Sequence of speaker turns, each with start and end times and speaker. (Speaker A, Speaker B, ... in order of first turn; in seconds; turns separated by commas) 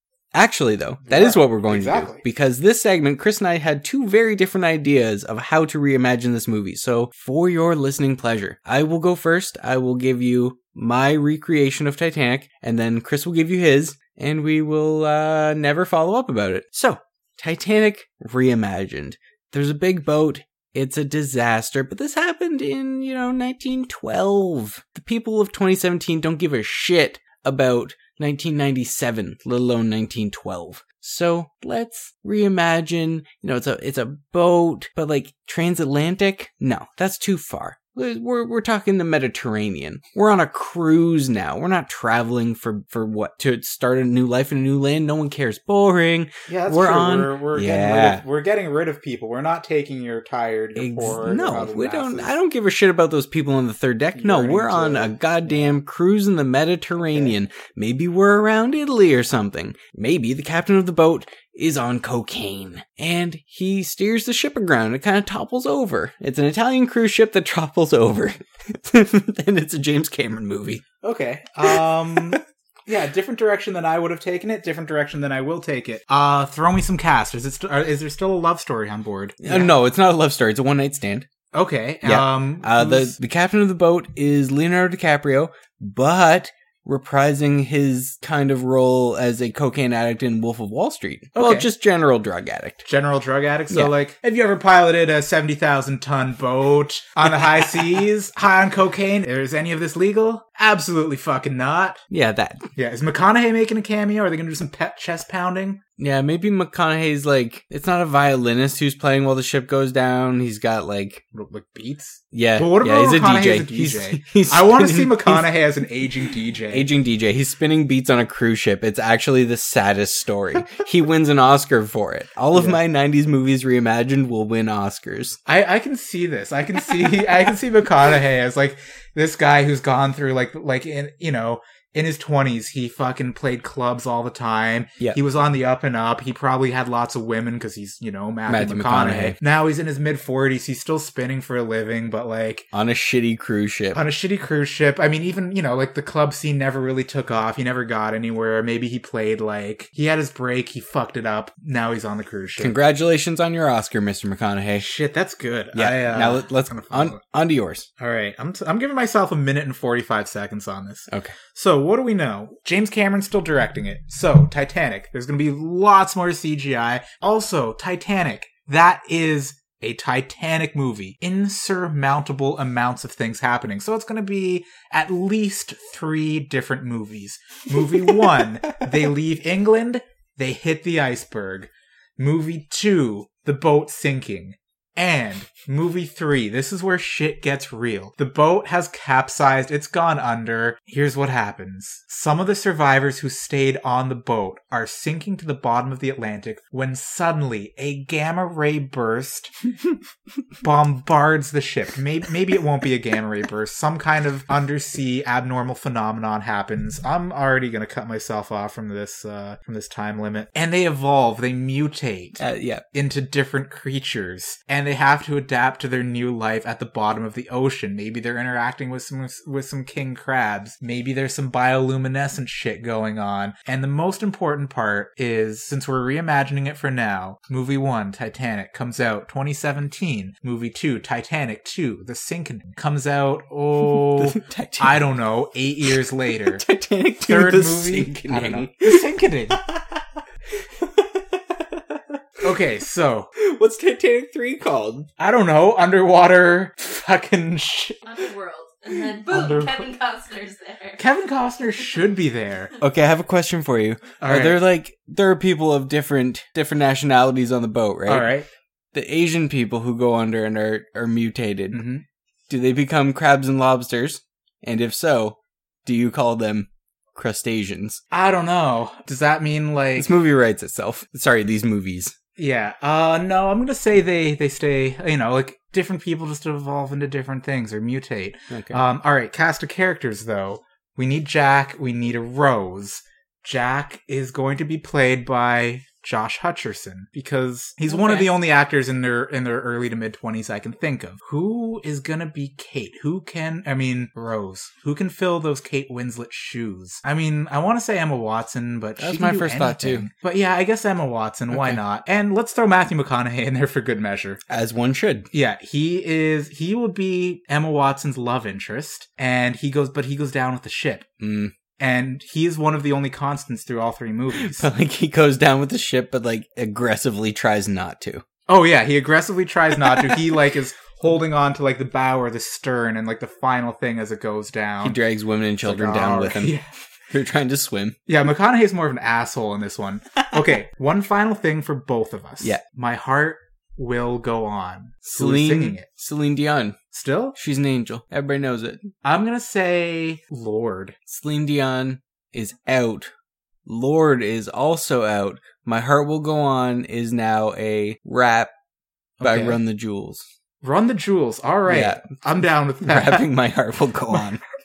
Speaker A: 0.3-48.2, Speaker B: 1.1-2.2, Speaker B: 46.5-52.3, Speaker A: 50.8-70.8, Speaker B: 54.2-55.8, Speaker B: 57.0-57.4, Speaker B: 71.0-79.7, Speaker A: 71.7-72.4, Speaker A: 79.4-81.3, Speaker B: 81.5-83.2, Speaker A: 82.0-92.8, Speaker B: 91.3-91.7, Speaker B: 92.8-102.0, Speaker A: 102.1-102.7, Speaker B: 102.8-105.8, Speaker A: 106.0-111.2, Speaker B: 111.3-116.9, Speaker A: 112.3-115.6, Speaker A: 116.7-125.4, Speaker B: 122.5-122.8, Speaker B: 125.5-142.7, Speaker A: 138.5-139.4, Speaker A: 142.7-144.0, Speaker B: 143.9-152.8, Speaker A: 152.6-154.9, Speaker B: 154.8-157.2, Speaker A: 155.7-157.9, Speaker B: 158.0-199.5, Speaker A: 161.1-161.3, Speaker A: 177.9-178.2, Speaker B: 200.6-212.4, Speaker A: 212.4-212.8, Speaker B: 212.9-236.7, Speaker A: 234.1-235.0, Speaker A: 236.5-240.0, Speaker B: 237.2-239.6, Speaker A: 240.6-242.2, Speaker B: 242.4-243.3, Speaker A: 243.4-245.1, Speaker B: 245.2-248.0, Speaker C: 248.1-251.0, Speaker B: 249.2-249.9, Speaker B: 251.0-252.7, Speaker A: 252.8-258.3, Speaker B: 254.2-254.6, Speaker B: 258.1-258.5, Speaker A: 258.9-261.8, Speaker B: 261.7-262.0, Speaker A: 262.5-268.0, Speaker B: 268.1-270.1, Speaker A: 270.0-272.1, Speaker B: 272.4-304.4, Speaker A: 278.5-278.8, Speaker A: 287.9-288.3, Speaker A: 299.0-300.1, Speaker A: 301.5-301.8, Speaker A: 304.5-305.3, Speaker B: 305.3-311.1, Speaker A: 311.2-311.6, Speaker B: 311.8-314.7, Speaker A: 314.3-318.2, Speaker B: 318.5-325.0, Speaker A: 319.8-320.4, Speaker A: 324.8-326.6, Speaker B: 325.6-326.7, Speaker A: 327.1-328.0, Speaker B: 328.1-335.9, Speaker A: 335.1-336.8, Speaker B: 336.9-337.4, Speaker A: 337.4-338.9, Speaker B: 339.0-341.0, Speaker A: 341.1-343.1, Speaker A: 343.6-348.5, Speaker B: 349.2-349.6, Speaker A: 349.2-350.3, Speaker B: 350.6-353.3, Speaker A: 351.7-352.1, Speaker A: 352.8-354.4